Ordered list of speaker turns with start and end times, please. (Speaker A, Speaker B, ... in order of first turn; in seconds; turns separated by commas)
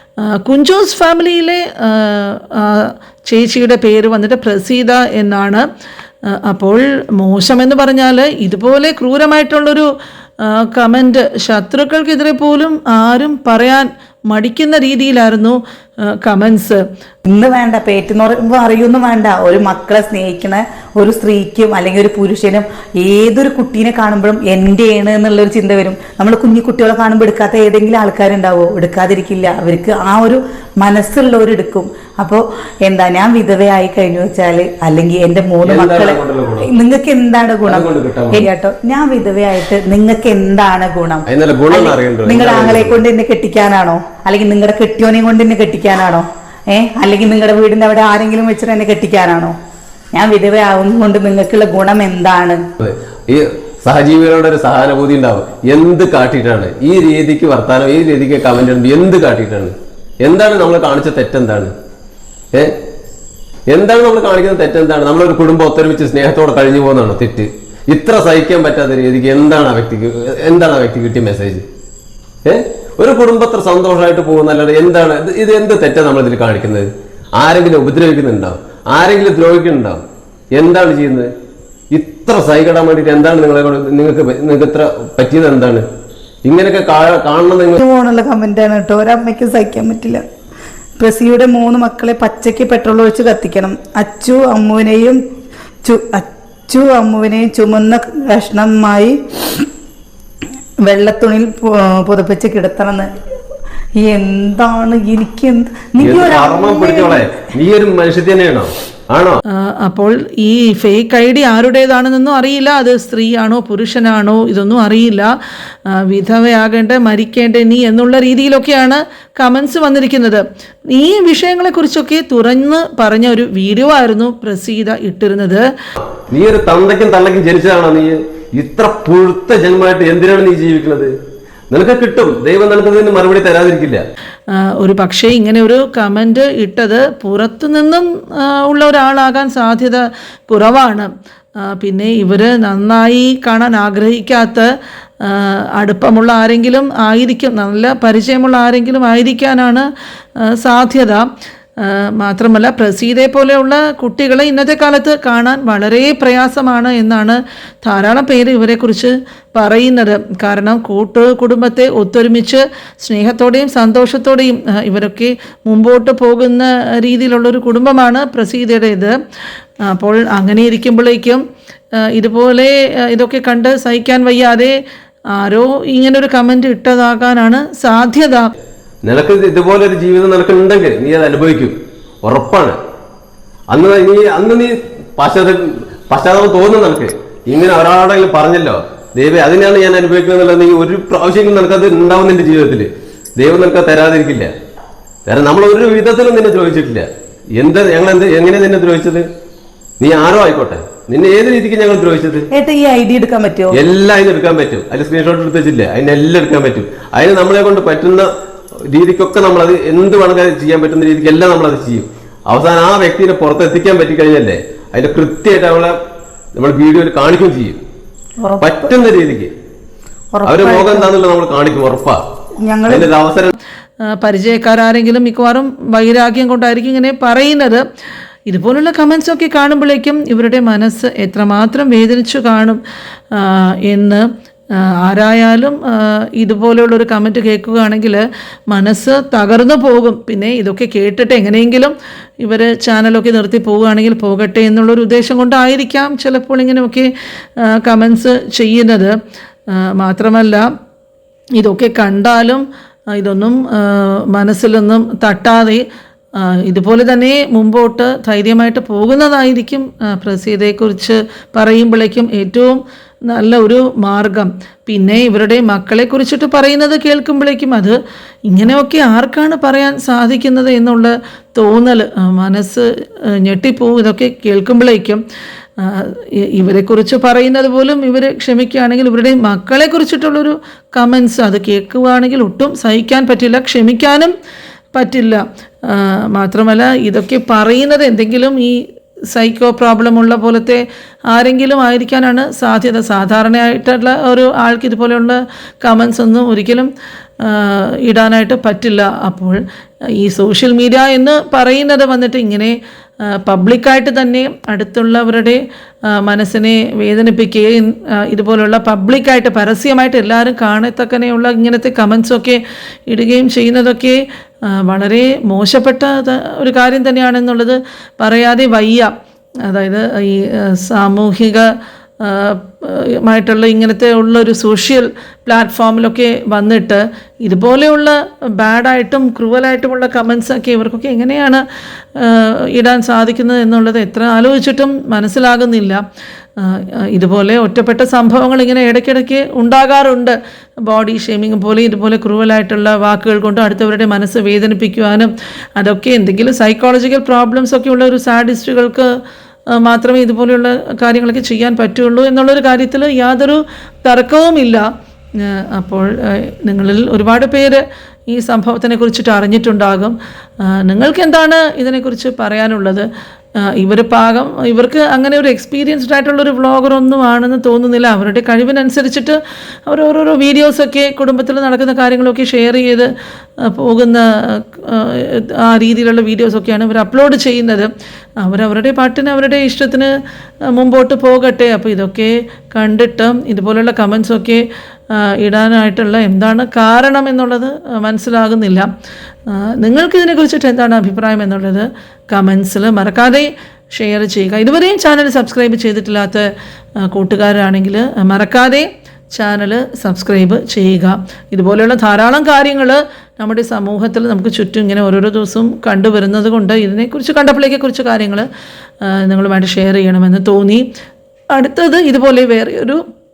Speaker A: 0.2-5.6, Speaker A: 6.3-9.9, Speaker A: 10.4-16.8, Speaker B: 17.2-49.5, Speaker C: 35.6-36.7, Speaker C: 37.6-38.5, Speaker C: 41.3-43.0, Speaker B: 50.1-52.6, Speaker C: 52.8-61.7, Speaker C: 63.7-71.6, Speaker C: 72.4-76.8, Speaker C: 77.4-80.0, Speaker C: 80.5-81.3, Speaker C: 81.9-85.8, Speaker C: 86.5-87.8, Speaker B: 87.8-90.2, Speaker B: 91.0-95.2, Speaker B: 95.8-99.7, Speaker B: 100.8-103.1, Speaker B: 104.0-107.3, Speaker C: 106.0-109.4, Speaker A: 109.5-115.3, Speaker A: 115.9-125.6, Speaker C: 126.3-131.1, Speaker C: 131.7-134.0, Speaker A: 134.5-144.7, Speaker A: 145.2-149.9, Speaker A: 150.4-151.2, Speaker A: 151.8-169.1, Speaker A: 169.9-171.4, Speaker A: 171.9-174.7, Speaker A: 175.3-178.5, Speaker C: 179.0-182.8, Speaker C: 183.7-192.9, Speaker C: 193.4-194.5, Speaker C: 195.3-197.1, Speaker C: 197.6-199.2, Speaker C: 200.0-202.5, Speaker B: 202.5-203.8, Speaker C: 203.7-208.3, Speaker C: 208.9-216.0, Speaker C: 216.6-217.8, Speaker B: 218.4-218.7, Speaker C: 218.6-219.5, Speaker B: 220.3-221.1, Speaker C: 220.4-222.2, Speaker B: 222.6-223.1, Speaker C: 222.9-223.5, Speaker A: 224.0-227.8, Speaker A: 228.5-232.8, Speaker A: 233.3-247.1, Speaker A: 247.6-249.1, Speaker A: 249.7-250.7, Speaker A: 251.6-255.8, Speaker A: 256.4-268.0, Speaker A: 268.5-275.2, Speaker A: 275.8-284.3, Speaker A: 284.9-296.9, Speaker A: 297.4-299.6, Speaker A: 300.2-302.7, Speaker A: 303.2-319.1, Speaker A: 319.6-331.6, Speaker A: 332.1-336.0, Speaker A: 336.6-349.1, Speaker A: 349.7-354.8, Speaker A: 355.4-363.1, Speaker A: 363.6-373.1, Speaker A: 373.6-380.1, Speaker A: 380.7-388.9, Speaker A: 389.5-396.5, Speaker A: 397.0-408.5, Speaker A: 409.0-410.9, Speaker A: 411.5-413.0